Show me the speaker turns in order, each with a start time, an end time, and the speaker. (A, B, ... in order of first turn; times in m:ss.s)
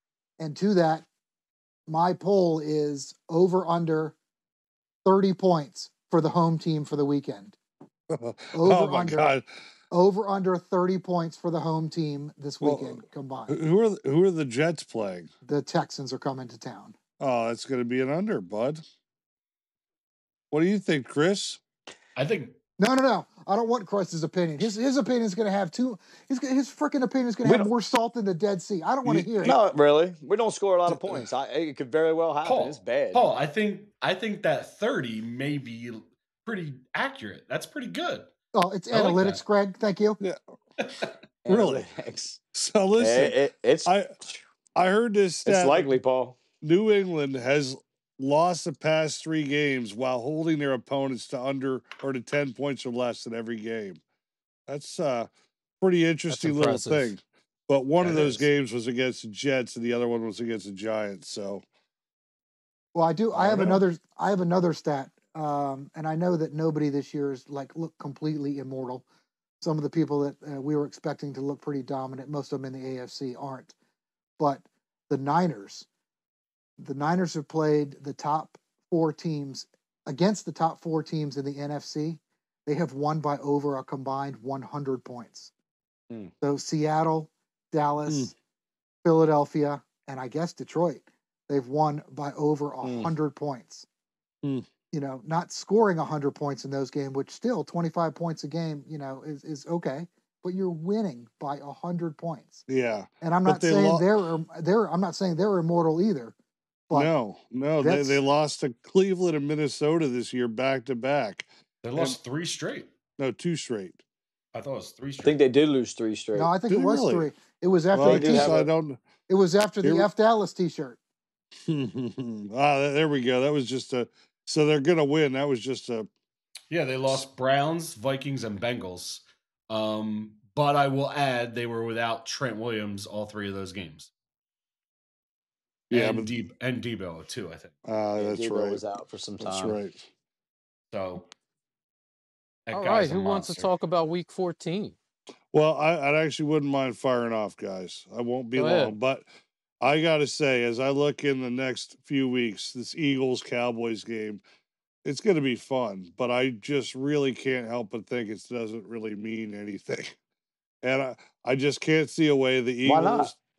0:00.4-0:01.1 A
0:01.9-0:04.2 A
0:05.0-0:07.6 A
0:08.1-0:09.4 B
0:08.5-0:09.3 A
0:09.9-0:13.6 A
0:12.6-0:15.3 B
0:15.4-0:16.9 A
0:17.2-0:18.8 B
0:20.5-0:21.6 B
0:22.2-0:22.6 C
0:22.8-0:29.6 A
0:27.4-0:27.7 D
0:29.0-0:29.3 B
0:29.4-0:33.2 D
0:30.9-0:31.2 B
0:32.4-0:38.3 C
0:38.5-0:40.2 A
0:38.9-0:39.3 B
0:39.0-0:39.4 C
0:40.8-0:41.1 C
0:41.4-0:42.4 D
0:41.5-0:41.9 B
0:42.5-0:44.1 B
0:43.0-0:44.4 D
0:44.7-0:46.0 B
0:45.4-0:46.4 D
0:46.6-0:54.0 B
0:54.7-0:55.3 B
0:55.8-1:01.6 B
0:56.3-0:57.1 E
0:58.0-0:58.4 E
1:02.9-1:09.0 A
1:03.3-1:03.8 B
1:09.6-1:13.7 A
1:14.4-1:15.8 A
1:16.8-1:25.5 A
1:26.4-1:28.3 A
1:28.0-1:28.3 B
1:29.0-1:33.8 A
1:32.8-1:33.1 D
1:34.9-1:42.6 A
1:42.7-1:44.1 B
1:43.2-1:46.3 A
1:46.9-1:52.2 B
1:47.8-1:48.2 A
1:51.8-1:52.9 C
1:53.2-1:54.0 B
1:54.5-1:55.4 C
1:55.2-1:56.5 D
1:56.3-1:58.6 A
1:56.7-1:57.3 B
1:57.9-1:59.0 B
1:58.0-1:58.7 D
1:59.3-2:01.0 A
1:59.8-2:00.1 B
2:01.7-2:06.1 B
2:06.7-2:14.1 C
2:15.9-2:16.3 B
2:15.9-2:17.7 C
2:17.8-2:18.8 B
2:18.2-2:19.8 D
2:19.4-2:20.0 B
2:20.9-2:21.3 C
2:22.7-2:23.7 C
2:22.7-2:25.0 E
2:25.5-2:29.3 B
2:28.6-2:28.9 E
2:29.8-2:34.4 B
2:35.0-2:40.2 B
2:40.8-2:43.4 B
2:42.8-2:43.3 D